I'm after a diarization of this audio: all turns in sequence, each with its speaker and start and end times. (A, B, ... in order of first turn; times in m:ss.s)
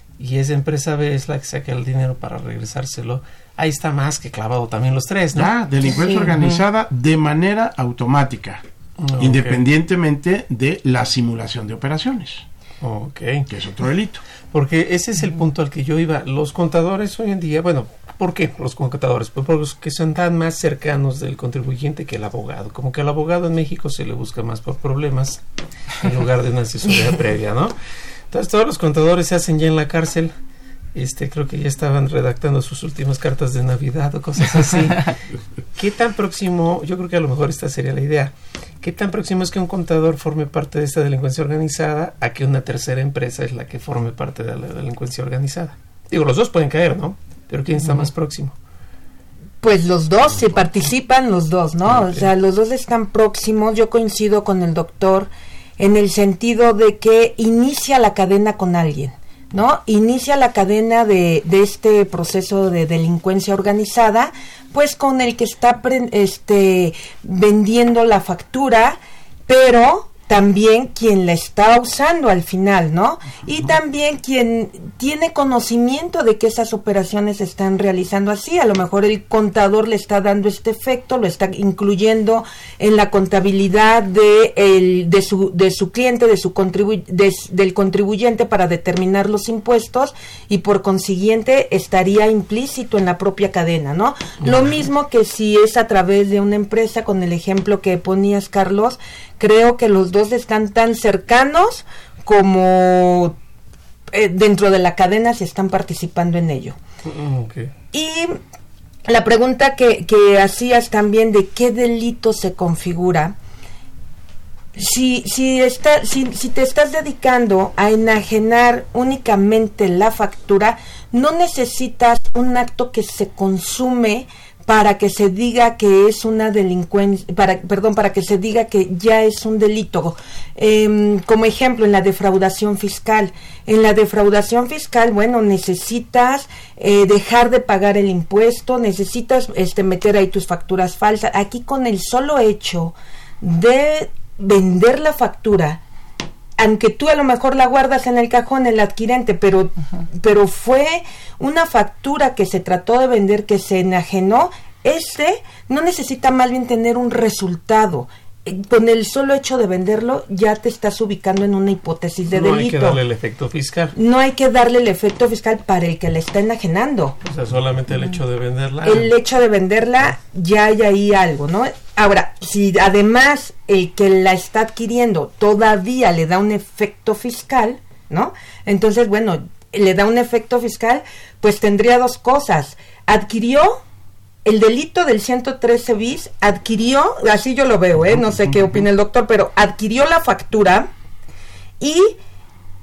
0:00.2-0:05.5 A
0:05.4-0:08.6 B
0:09.0-0:09.6 A
0:09.2-0:12.4 B
0:12.8-0:13.5 A
0:13.5-0:14.2 B
0:14.5-0:25.4 A
0:26.0-0:27.8 A
0:28.3-0:30.3 A
0:30.9-0:35.2 A
0:35.7-0:48.6 A
0:49.6-1:43.4 C
0:51.8-0:52.3 A
1:34.4-1:34.8 A
1:44.1-1:46.8 C
1:47.0-1:47.7 A
1:47.9-1:48.4 C
1:49.1-1:53.4 C
1:54.7-2:25.8 C
2:26.6-2:43.0 C
2:42.3-2:43.9 A
2:44.0-2:47.2 C
2:47.2-2:49.1 A
2:48.8-3:03.8 C
3:04.4-3:10.9 C
3:08.5-3:08.8 A
3:11.8-3:12.2 C